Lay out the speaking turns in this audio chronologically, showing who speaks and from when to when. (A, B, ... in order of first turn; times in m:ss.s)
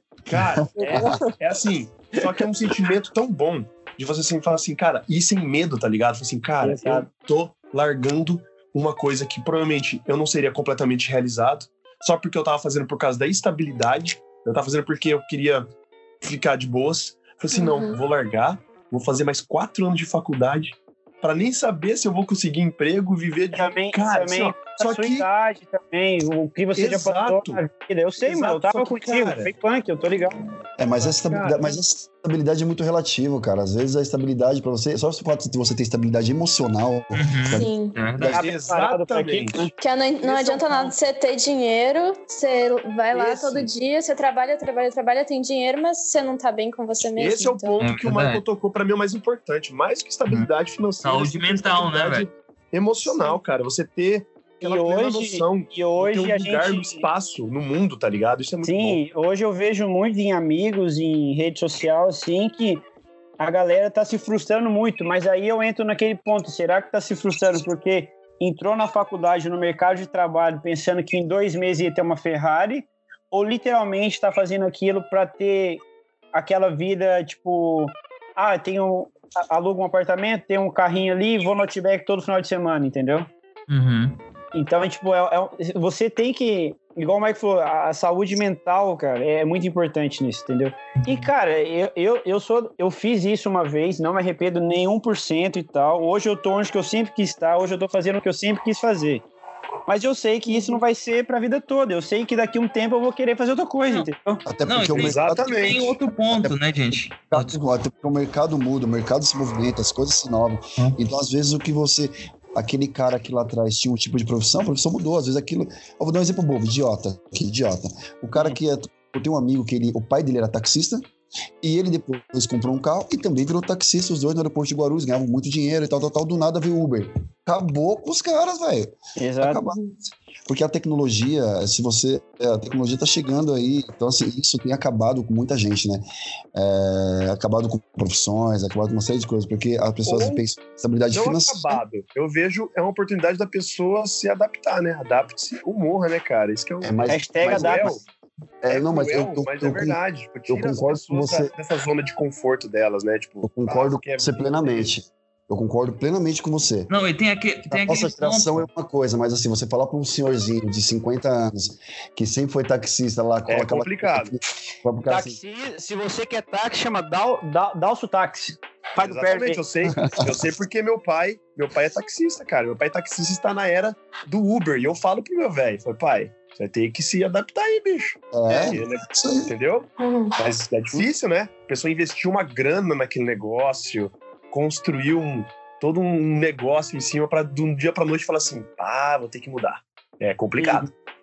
0:00.3-0:15.7 A
0:00.8-0:01.3 B
0:06.6-0:07.1 B
0:16.2-0:25.2 A
0:17.5-0:18.0 C
0:23.5-0:30.4 B
0:26.7-0:27.6 A
0:28.2-0:29.5 A
0:30.8-0:38.4 D
0:31.0-0:31.8 A
0:37.1-0:38.4 E
0:37.5-0:38.0 C
0:38.2-0:39.7 A
0:38.3-0:39.7 B
0:39.8-0:47.7 C
0:40.2-0:40.9 A
0:43.1-0:43.7 A
0:47.2-0:59.0 A
0:47.8-0:48.4 E
0:51.0-0:52.3 E
0:54.6-0:57.1 B
0:58.6-1:02.8 B
1:03.4-1:15.8 B
1:16.3-1:23.3 B
1:23.7-1:24.2 E
1:24.5-1:39.2 B
1:39.9-1:44.4 B
1:40.4-1:40.8 C
1:44.4-2:01.0 D
1:44.7-1:47.6 E
1:44.9-1:45.9 A
1:58.3-1:58.6 B
2:01.6-2:09.8 D
2:09.2-2:09.6 B
2:10.5-2:16.0 D
2:16.5-2:21.8 D
2:20.0-2:20.4 A
2:21.1-2:28.0 A
2:26.8-2:27.9 D
2:27.1-2:27.9 B
2:28.6-2:31.5 D
2:28.7-2:34.9 A
2:33.4-2:36.9 D
2:36.9-2:38.6 E
2:37.7-2:45.4 D
2:43.5-2:44.3 A
2:45.1-2:49.6 B
2:49.0-3:10.9 A
2:49.9-2:50.4 D
2:58.3-2:59.5 D
2:58.5-2:58.8 B
3:00.0-3:00.3 C
3:10.6-3:10.9 B